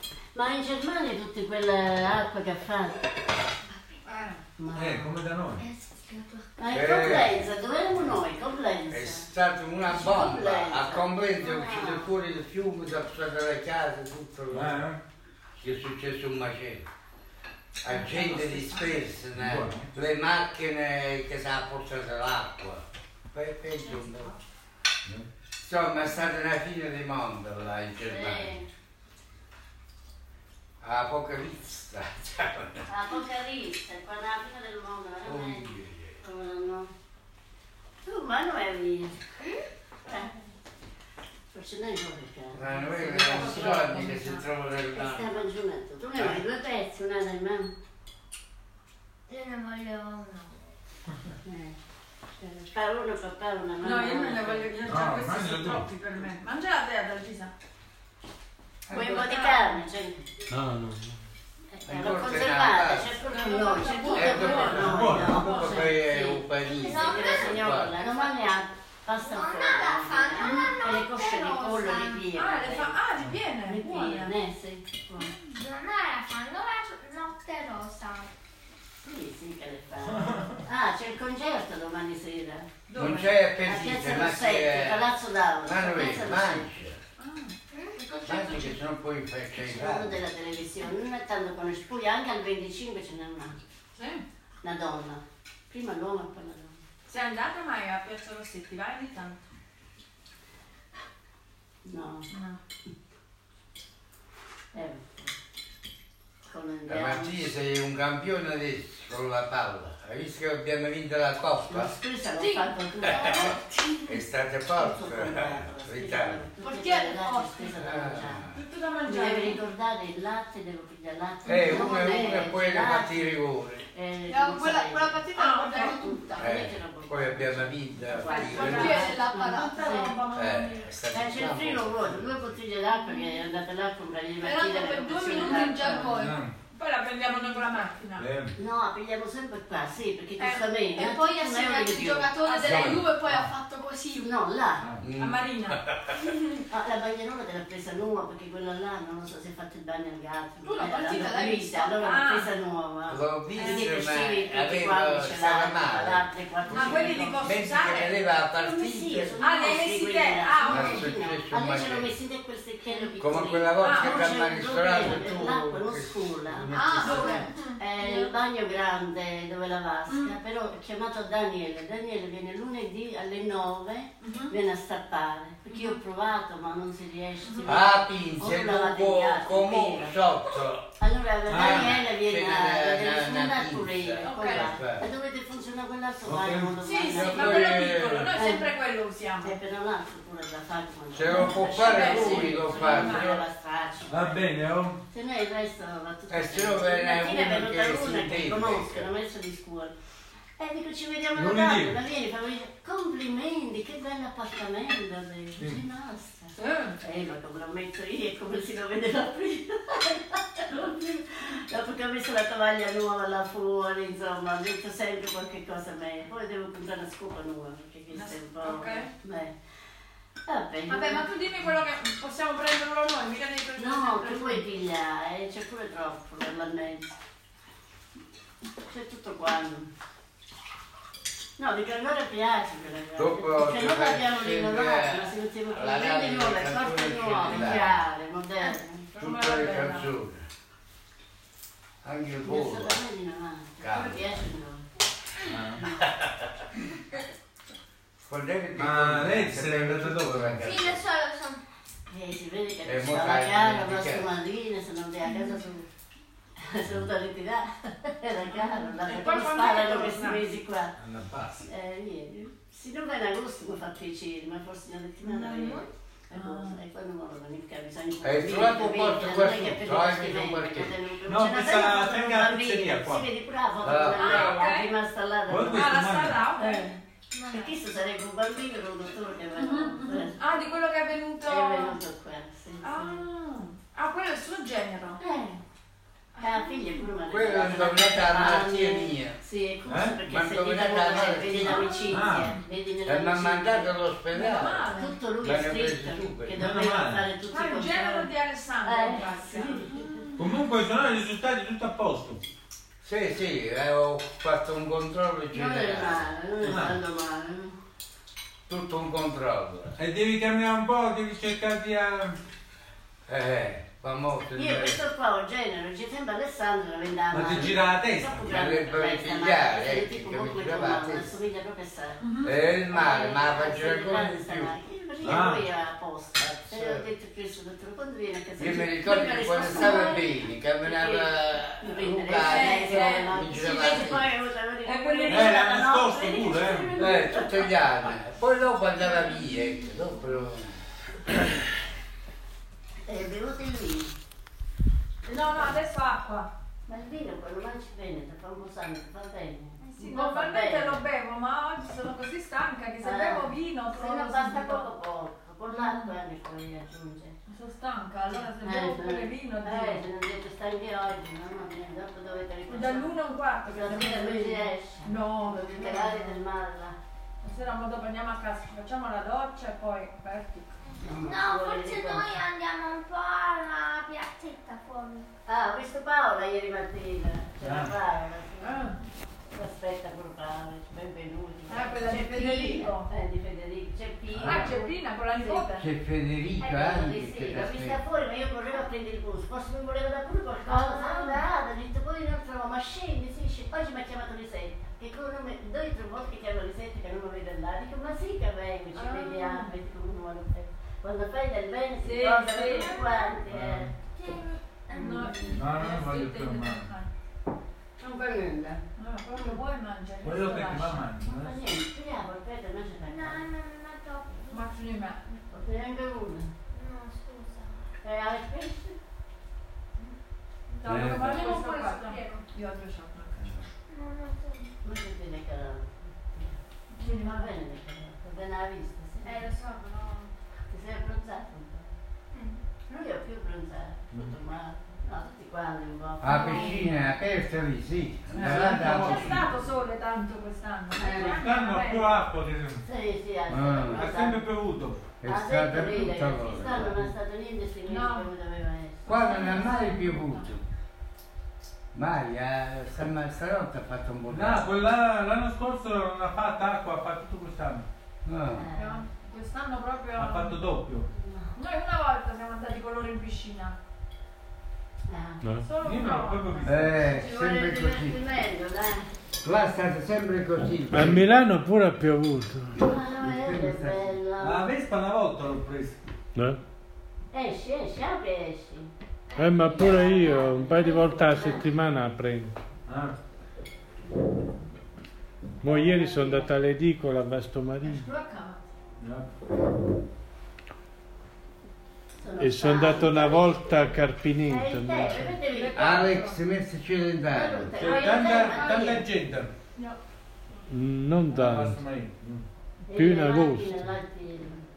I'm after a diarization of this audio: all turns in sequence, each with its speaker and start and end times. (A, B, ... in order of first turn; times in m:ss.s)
0:00.3-0:03.0 A
0:04.0-0:04.4 B
0:04.6-0:05.2 A
0:04.7-0:05.6 C
0:05.6-0:06.9 D
0:06.6-0:09.3 A
0:06.7-0:07.5 E
0:08.9-0:14.8 E
0:09.8-0:11.1 A
0:11.4-0:12.0 D
0:14.5-0:15.0 C
0:15.6-0:16.8 E
0:17.8-0:24.3 E
0:17.9-0:19.0 B
0:19.3-0:19.9 C
0:25.6-0:28.5 E
0:28.0-0:28.6 A
0:30.8-0:32.9 E
0:32.9-0:36.9 A
0:35.2-0:36.2 E
0:38.0-0:39.2 A
0:40.0-0:40.5 A
0:41.5-0:44.0 A
0:42.5-0:45.3 E
0:43.0-0:44.4 B
0:44.9-0:47.7 A
0:49.3-0:50.6 D
0:51.4-0:51.8 A
0:52.4-0:54.7 A
0:53.8-0:57.5 B
0:54.8-0:55.9 C
0:58.9-0:59.8 B
0:58.9-1:00.3 A
1:00.5-1:01.2 F
1:01.7-1:13.0 A
1:01.8-1:03.2 E
1:03.3-1:05.6 B
1:04.1-1:07.9 E
1:04.8-1:05.6 C
1:06.7-1:08.3 D
1:09.2-1:12.2 D
1:10.4-1:10.7 B
1:12.3-1:14.3 B
1:13.6-1:15.3 A
1:15.2-1:18.3 D
1:19.0-1:22.7 A
1:20.2-1:20.6 C
1:22.9-1:23.3 B
1:22.9-1:25.1 E
1:23.6-1:26.8 A
1:25.6-1:27.0 E
1:27.2-1:27.6 B
1:27.7-1:28.0 D
1:28.0-1:28.8 G
1:28.2-1:30.2 E
1:29.6-1:33.6 A
1:34.0-1:34.2 B
1:34.6-1:36.8 A
1:37.1-1:39.4 B
1:41.8-1:42.3 A
1:42.3-1:42.6 B
1:44.7-1:45.3 A
1:46.5-1:47.4 A
1:46.9-1:51.9 E
1:51.7-1:53.6 A
1:52.4-1:54.0 G
1:53.0-1:53.5 E
1:54.0-1:56.4 E
1:54.7-1:58.5 A
1:56.6-1:57.7 G
1:57.8-1:58.6 E
1:58.5-1:59.6 B
1:59.0-2:03.3 A
2:01.4-2:03.9 E
2:01.6-2:02.4 G
2:03.9-2:10.1 A
2:04.3-2:06.6 G
2:05.4-2:06.0 B
2:06.4-2:09.1 E
2:08.2-2:10.8 B
2:08.3-2:10.5 G
2:10.3-2:12.6 E
2:11.1-2:16.1 A
2:14.4-2:16.4 G
2:15.4-2:15.6 B
2:16.1-2:16.5 C
2:16.7-2:18.3 B
2:18.2-2:18.6 C
2:18.6-2:22.3 A
2:20.4-2:24.3 G
2:22.4-2:22.9 B
2:22.6-2:23.0 E
2:22.7-2:23.5 C
2:24.2-2:24.9 A
2:24.8-2:25.1 C
2:25.0-2:26.0 E
2:25.2-2:26.6 B
2:26.7-2:37.4 A
2:30.6-2:32.0 G
2:32.0-2:32.5 B
2:33.1-2:36.3 E
2:33.6-2:33.8 B
2:36.7-2:38.1 B
2:36.8-2:37.2 G
2:37.4-2:39.4 E
2:38.6-3:00.2 A
2:39.4-2:41.1 B
2:40.7-2:42.1 E
2:43.2-2:47.4 E
2:43.8-2:44.2 B
2:46.7-2:48.3 G
2:47.0-2:47.5 B
2:50.1-2:50.3 B
2:54.2-2:54.5 B
2:55.7-2:56.0 B
2:57.4-2:57.7 B
2:57.6-3:00.9 E
3:01.0-3:07.8 A
3:01.5-3:02.0 C
3:01.5-3:05.0 E
3:04.2-3:04.7 B
3:06.2-3:06.8 C
3:06.8-3:09.6 B
3:07.1-3:08.3 E
3:08.3-3:08.7 A
3:09.4-3:14.4 A
3:11.1-3:13.4 E
3:11.3-3:13.4 B
3:14.1-3:15.0 C
3:15.1-3:19.9 A
3:16.3-3:19.1 E
3:20.6-3:39.5 A
3:21.3-3:22.0 C
3:26.5-3:27.0 B
3:38.1-3:39.1 B
3:40.4-3:41.3 A
3:40.9-3:44.6 B
3:43.8-3:47.2 A
3:48.8-3:49.9 A
3:51.6-3:59.0 A
3:53.2-3:57.9 E
3:59.1-4:00.1 B
3:59.2-4:00.4 E
4:02.0-4:03.0 E
4:02.4-4:04.8 A
4:03.8-4:04.4 E
4:05.4-4:05.8 C
4:06.0-4:06.6 E
4:08.2-4:11.0 E
4:08.8-4:10.7 C
4:10.6-4:11.6 D
4:12.1-4:15.9 A
4:12.8-4:14.3 E
4:16.6-4:20.9 A
4:18.5-4:20.5 B
4:21.0-4:21.7 C
4:21.6-4:40.4 A
4:25.3-4:25.9 D
4:26.3-4:26.8 B
4:28.2-4:31.1 E
4:31.3-4:33.3 C
4:33.8-4:34.5 E
4:34.2-4:34.9 B
4:35.5-4:36.4 C
4:35.7-4:36.9 B
4:37.3-4:37.7 D
4:39.6-4:42.0 B
4:41.4-4:43.2 A
4:42.8-4:45.2 B
4:45.2-4:45.6 A
4:46.3-4:47.0 B
4:46.4-4:54.0 A
4:47.3-4:49.4 E
4:49.9-4:50.2 C
4:50.2-4:52.0 E
4:51.6-4:52.2 B
4:52.1-4:52.6 C
4:53.0-4:56.6 E
4:54.3-4:55.2 B
4:55.0-4:58.3 A
4:56.5-4:57.3 C
4:57.5-5:00.4 B
4:58.8-5:00.3 A
5:00.4-5:02.4 C
5:03.0-5:06.3 E
5:05.5-5:07.7 A
5:06.6-5:07.0 C
5:08.7-5:10.0 E
5:10.0-5:12.4 C
5:13.3-5:15.0 E
5:14.5-5:22.2 A
5:17.3-5:18.5 C
5:18.5-5:21.4 E
5:22.2-5:22.5 B
5:22.4-5:24.7 E
5:22.9-5:37.7 A
5:25.2-5:25.7 C
5:26.4-5:27.1 E
5:28.6-5:34.3 E
5:32.3-5:34.1 B
5:34.8-5:35.6 B
5:35.3-5:36.9 C
5:37.0-5:40.9 E
5:43.0-5:44.1 A
5:45.2-5:46.5 B
5:46.9-5:51.0 A
5:49.8-5:54.8 B
5:53.0-5:57.3 A
5:55.7-5:56.1 B
5:57.5-6:00.0 B
5:58.6-6:03.1 A
6:02.7-6:06.4 B
6:03.6-6:07.0 A
6:07.4-6:10.8 B
6:10.8-6:15.3 D
6:11.0-6:12.4 A
6:15.5-6:18.9 A
6:17.6-6:17.9 C
6:18.6-6:19.0 B
6:19.5-6:25.7 A
6:21.7-6:23.1 B
6:24.3-6:24.7 C
6:24.4-6:25.9 B
6:25.8-6:28.0 E
6:26.6-6:43.9 A
6:30.7-6:31.4 B
6:38.9-6:39.7 B
6:42.0-6:43.0 B
6:42.6-6:43.4 D
6:43.5-6:43.9 C
6:44.0-6:45.4 D
6:44.9-6:45.6 A
6:45.0-6:47.1 B
6:45.5-6:46.9 C
6:48.0-6:49.6 A
6:49.0-6:51.0 B
6:50.2-6:51.6 C
6:51.2-6:53.5 A
6:53.0-6:54.7 D
6:54.5-6:55.4 B
6:55.5-6:56.5 A
6:56.7-6:57.9 D
6:58.0-6:59.0 A
7:00.7-7:03.6 B
7:00.8-7:01.3 E
7:01.0-7:02.5 G
7:03.4-7:03.6 C
7:03.9-7:04.7 D
7:04.8-7:09.5 A
7:06.9-7:07.5 B
7:09.2-7:10.3 G
7:10.7-7:11.9 A
7:12.9-7:17.0 A
7:16.2-7:19.5 E
7:16.2-7:16.8 B
7:18.3-7:19.4 C
7:18.4-7:22.2 B
7:20.9-7:21.4 A
7:21.1-7:22.8 C
7:22.8-7:24.4 A
7:23.5-7:24.0 E
7:24.0-7:25.0 C
7:25.2-7:27.1 E
7:25.2-7:29.3 A
7:27.9-7:28.3 B
7:29.0-7:30.5 B
7:29.0-7:30.6 E
7:31.9-7:34.6 E
7:34.3-7:37.8 C
7:38.2-7:38.6 E
7:38.5-7:39.0 A
7:38.8-7:40.6 B
7:40.2-7:41.1 C
7:41.1-7:41.6 A
7:41.6-7:43.8 B
7:45.1-7:45.4 A
7:45.4-7:45.7 F
7:45.6-7:46.8 B
7:45.8-7:46.8 C
7:46.6-7:48.2 E
7:46.9-7:49.1 A
7:49.4-7:51.2 E
7:50.9-7:52.9 F
7:52.8-7:54.7 A
7:52.9-7:54.1 E
7:54.4-7:56.0 C
7:56.3-7:56.6 F
7:57.3-7:58.9 A
7:59.4-8:00.0 D
7:59.4-8:02.5 F
7:59.6-8:01.7 A
8:02.8-8:03.1 C
8:05.6-8:06.6 A
8:05.6-8:08.1 F
8:07.8-8:08.7 B
8:09.0-8:09.3 C
8:12.2-8:16.2 A
8:12.4-8:15.4 F
8:15.5-8:16.4 B
8:15.7-8:17.7 E
8:17.3-8:19.0 A
8:17.8-8:19.5 C
8:17.8-8:19.0 B
8:20.7-8:21.8 F
8:21.3-8:22.4 C
8:22.9-8:24.6 A
8:22.9-8:23.9 F